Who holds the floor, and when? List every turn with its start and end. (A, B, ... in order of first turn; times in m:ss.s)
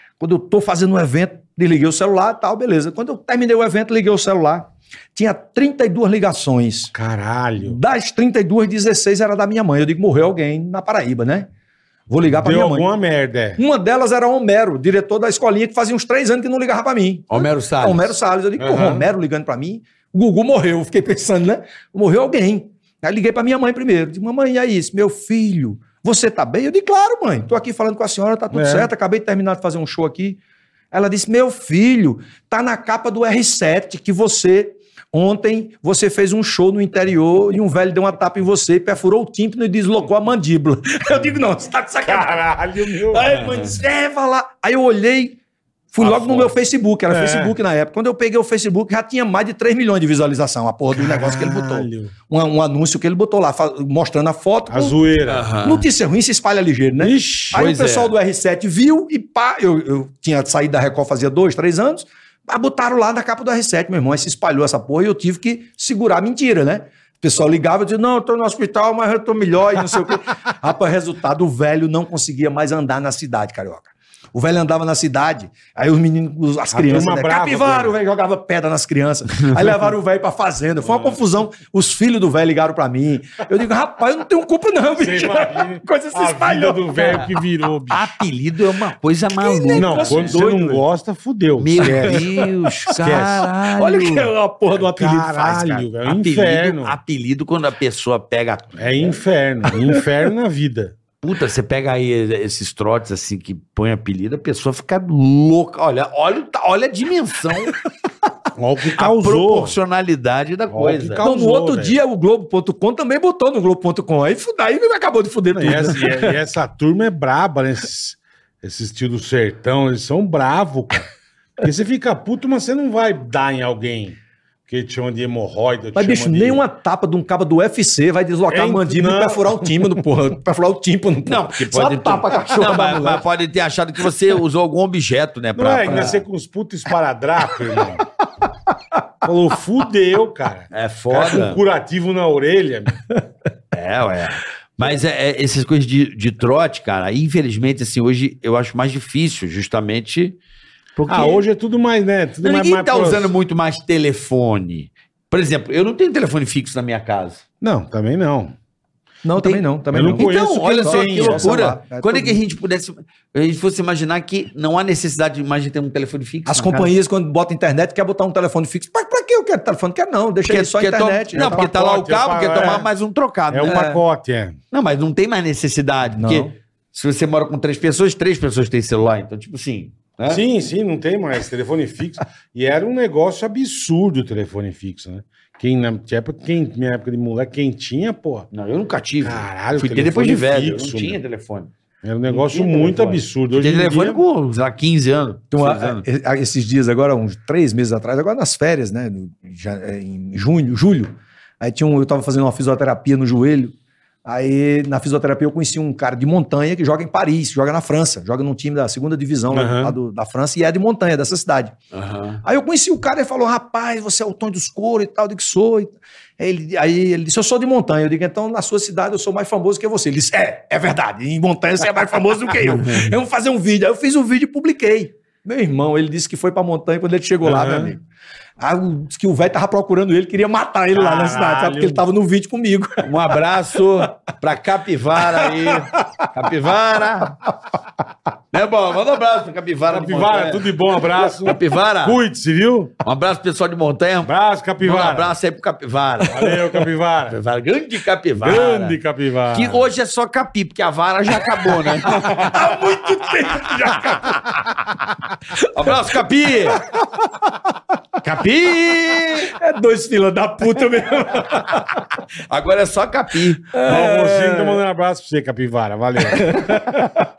0:00.2-0:06.9 A
0:06.9-0:07.8 B
0:07.6-0:11.5 A
0:12.1-0:12.9 A
0:12.3-0:13.6 B
0:13.6-0:30.4 A
0:17.3-0:18.1 C
0:18.6-0:19.0 B
0:28.5-0:28.9 B
0:30.9-0:45.4 A
0:42.0-0:43.4 B
0:43.2-0:43.8 C
0:45.9-0:55.0 A
0:46.2-0:46.5 B
0:47.1-0:47.5 B
0:50.9-0:52.1 B
0:54.7-0:55.5 B
0:55.3-0:55.8 C
0:55.6-1:27.4 A
0:57.0-0:57.6 B
0:57.5-0:58.1 C
1:16.7-1:17.9 B
1:20.8-1:21.1 B
1:25.0-1:28.2 B
1:27.9-1:30.4 C
1:29.3-1:30.8 A
1:29.8-1:32.3 B
1:31.6-1:34.3 C
1:31.8-1:32.5 A
1:32.9-1:33.5 B
1:33.6-1:35.9 A
1:34.8-1:37.0 B
1:36.0-1:39.1 C
1:38.8-1:41.0 B
1:41.2-1:47.8 C
1:48.6-1:49.8 B
1:49.0-1:51.2 C
1:50.7-1:52.0 B
1:51.2-1:56.3 A
1:55.5-2:04.2 B
2:04.7-2:06.6 B
2:05.9-2:13.2 A
2:08.5-2:10.0 B
2:11.2-2:16.2 C
2:15.6-2:18.0 B
2:15.8-2:16.1 A
2:19.2-2:23.1 B
2:20.7-2:21.6 C
2:23.7-2:30.4 C
2:31.0-2:31.4 C
2:31.1-2:33.3 B
2:32.4-2:37.4 C
2:37.6-2:38.5 B
2:39.2-2:42.4 A
2:39.4-2:46.9 C
2:39.9-2:41.5 B
2:46.4-2:51.7 A
2:50.4-2:53.8 C
2:51.3-2:52.9 B
2:53.5-2:54.6 B
2:53.6-2:54.0 A
2:54.7-3:00.4 C
2:56.1-2:56.5 A
3:00.3-3:08.5 B
3:08.5-3:11.7 C
3:09.2-3:11.2 B
3:12.0-3:14.2 B
3:12.3-3:16.0 C
3:15.5-3:31.7 A
3:29.5-3:30.0 B
3:31.9-3:32.4 C
3:32.4-3:48.0 A
3:42.8-3:43.1 C
3:47.4-3:47.9 B
3:48.6-3:53.1 A
3:50.9-3:52.0 B
3:53.0-3:57.4 C
3:55.4-3:55.7 A
3:58.5-4:02.2 C
3:59.9-4:03.0 B
4:03.0-4:06.7 C
4:04.2-4:05.4 B
4:06.3-4:07.4 B
4:07.3-4:09.0 C
4:08.4-4:09.9 B
4:09.5-4:14.3 C
4:12.1-4:15.0 A
4:15.6-4:16.8 C
4:15.9-4:16.2 A
4:16.7-4:17.5 A
4:18.2-4:19.5 C
4:19.5-4:22.1 A
4:22.5-4:23.8 C
4:23.7-4:24.8 A
4:23.8-4:26.8 B
4:26.3-4:27.3 A